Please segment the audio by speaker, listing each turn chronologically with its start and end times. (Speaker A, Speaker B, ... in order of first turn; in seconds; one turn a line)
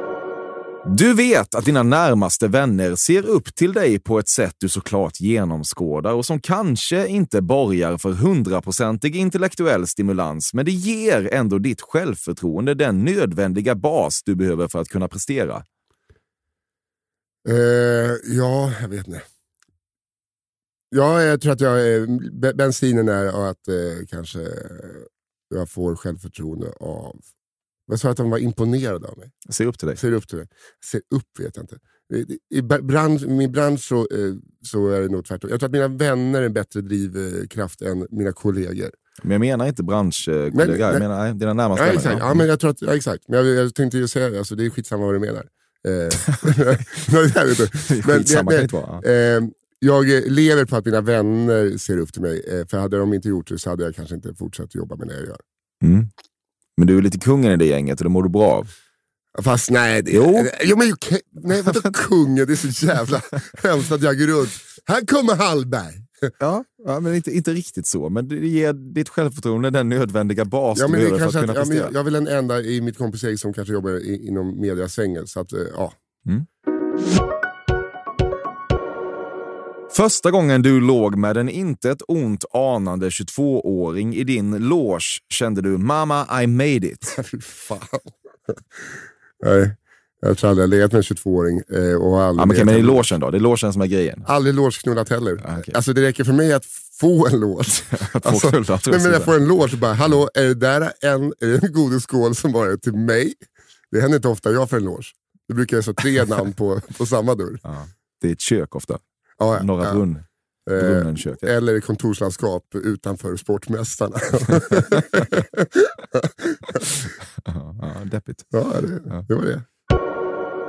Speaker A: 0.8-15.6
Speaker B: 17.4-19.2
Speaker B: 20.9-27.3
Speaker B: 27.9-29.3
Speaker A: 29.5-30.0
Speaker B: 29.9-39.0
Speaker A: 39.2-42.4
Speaker B: 40.5-41.0
Speaker B: 41.8-55.4
Speaker A: 47.9-49.0
Speaker A: 55.8-56.1
Speaker A: 56.8-58.7
Speaker B: 59.3-66.3
Speaker A: 60.1-60.5
Speaker A: 66.4-71.9
Speaker B: 70.7-76.0
Speaker A: 79.9-87.2
Speaker B: 87.1-88.8
Speaker B: 89.4-93.0
Speaker A: 92.4-94.2
Speaker B: 94.2-103.4
Speaker A: 95.4-95.7
Speaker A: 97.8-99.3
Speaker B: 103.9-107.6
Speaker A: 107.6-109.0
Speaker B: 109.4-110.0
Speaker A: 109.5-110.2
Speaker B: 110.7-117.1
Speaker A: 110.8-111.5
Speaker A: 117.4-118.5
Speaker B: 118.5-119.7